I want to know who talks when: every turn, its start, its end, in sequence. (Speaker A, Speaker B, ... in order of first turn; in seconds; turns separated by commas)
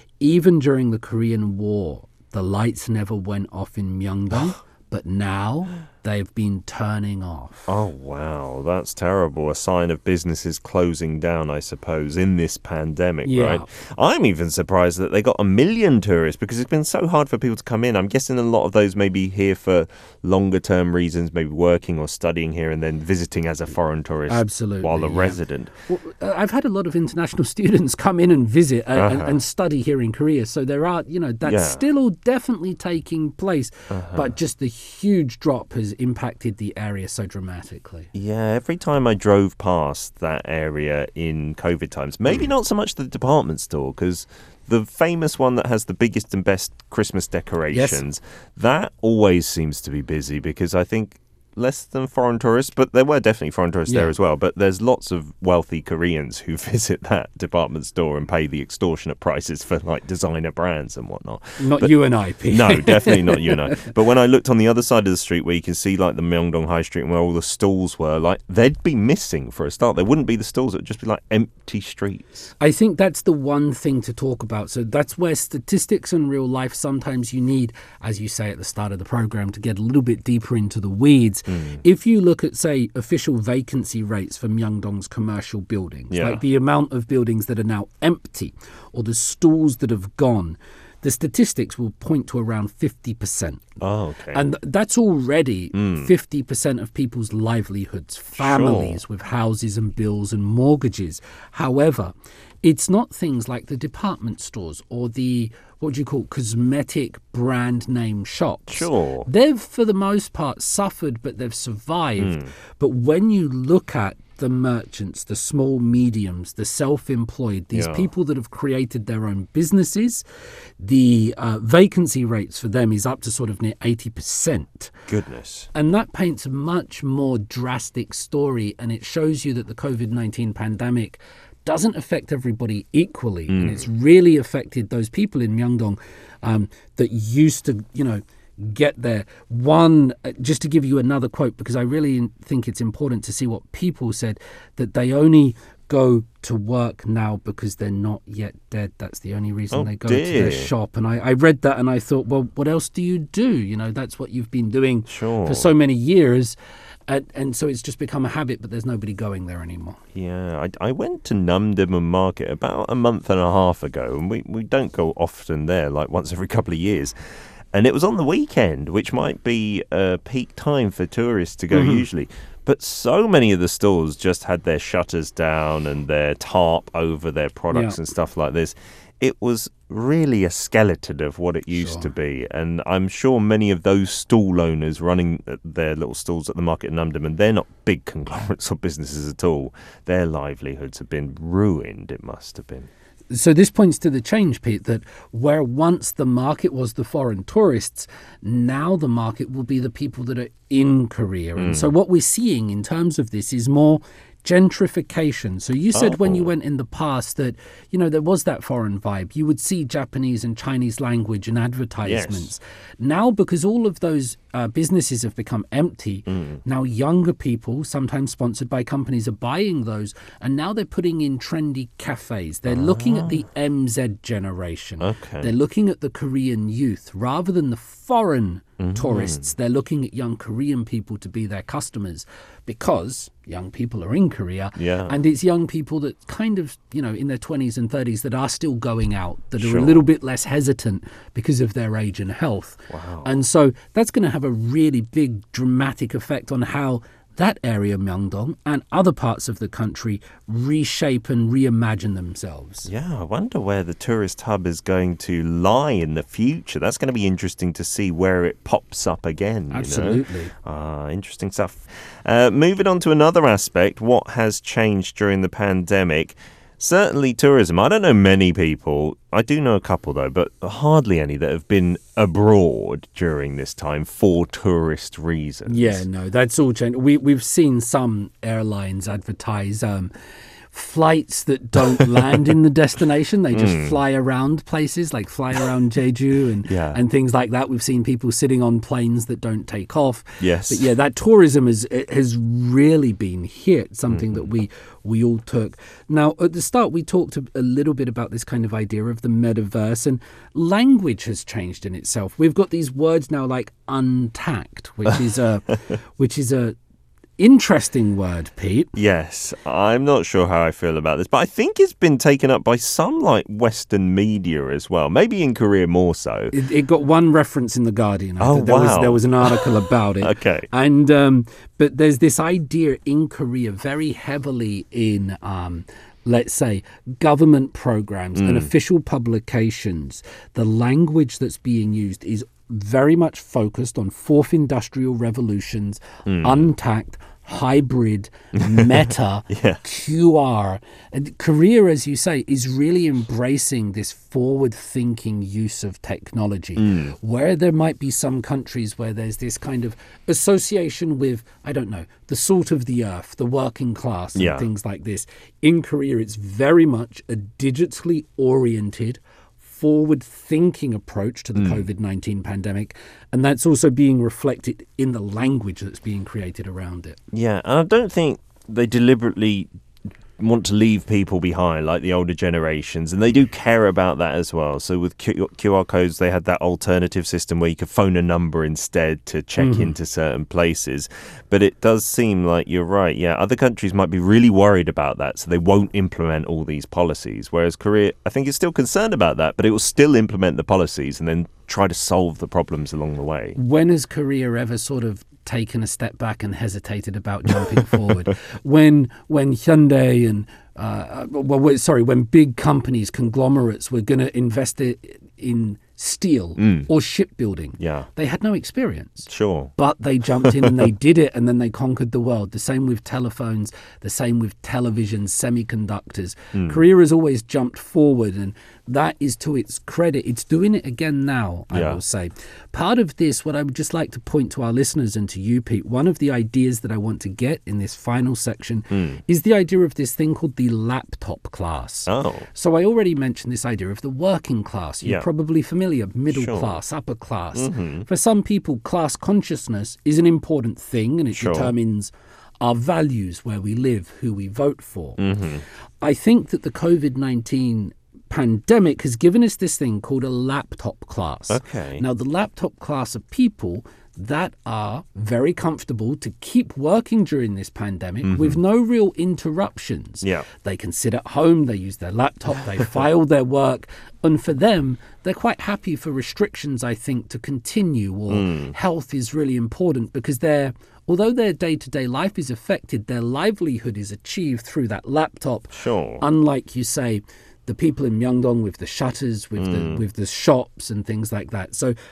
Speaker A: 0.2-7.7, Speaker B: 7.7-25.7, Speaker A: 13.3-13.7, Speaker A: 24.3-38.1, Speaker B: 28.9-29.4, Speaker B: 31.4-31.8, Speaker B: 33.9-34.3, Speaker B: 38.1-61.9, Speaker A: 47.7-48.0, Speaker A: 53.9-54.1, Speaker A: 61.6-63.6, Speaker B: 62.5-72.5, Speaker A: 72.6-93.6, Speaker B: 81.5-81.8, Speaker B: 86.1-86.4, Speaker B: 93.8-94.5, Speaker A: 94.3-120.2, Speaker B: 95.7-96.1, Speaker B: 98.4-99.0, Speaker B: 108.7-109.3, Speaker B: 112.2-112.5, Speaker B: 117.7-118.1, Speaker A: 120.8-124.9, Speaker B: 125.1-125.7, Speaker A: 125.7-156.6, Speaker B: 133.5-133.8, Speaker B: 149.7-150.7, Speaker B: 155.1-155.7, Speaker A: 157.1-160.0, Speaker B: 160.1-167.1, Speaker B: 167.7-192.9, Speaker A: 171.7-172.1, Speaker A: 177.7-178.0, Speaker A: 181.7-182.1, Speaker A: 193.3-252.9, Speaker B: 201.6-201.9, Speaker B: 205.9-206.5, Speaker B: 212.0-212.5, Speaker B: 216.3-216.6, Speaker B: 222.7-223.4, Speaker B: 225.0-225.5, Speaker B: 228.8-229.5, Speaker B: 234.8-235.2, Speaker B: 239.6-240.0, Speaker B: 242.9-243.4, Speaker B: 252.9-276.0, Speaker A: 259.7-260.5, Speaker A: 275.7-280.1, Speaker A: 280.7-306.8, Speaker B: 283.5-284.0, Speaker B: 286.6-287.0, Speaker B: 290.4-290.9, Speaker B: 294.1-294.5, Speaker A: 307.4-308.9, Speaker B: 308.9-316.6, Speaker A: 316.5-367.2, Speaker B: 318.4-320.7, Speaker B: 328.4-328.7, Speaker B: 336.3-336.7, Speaker B: 338.6-339.8, Speaker B: 346.8-347.1, Speaker B: 354.4-354.7, Speaker B: 361.6-361.9, Speaker B: 367.3-369.7, Speaker B: 370.4-393.6, Speaker A: 379.6-379.9, Speaker A: 393.6-445.2, Speaker B: 406.6-406.9, Speaker B: 407.8-408.1, Speaker B: 409.3-409.7, Speaker B: 416.5-416.9, Speaker B: 421.7-422.0, Speaker B: 428.9-429.2, Speaker B: 432.1-432.5, Speaker B: 436.3-436.8, Speaker B: 437.5-438.1, Speaker B: 441.3-441.7, Speaker B: 445.2-445.6, Speaker A: 446.0-481.9, Speaker B: 451.5-452.1, Speaker B: 458.2-458.6, Speaker B: 468.3-468.7, Speaker B: 475.7-476.2, Speaker B: 479.6-480.0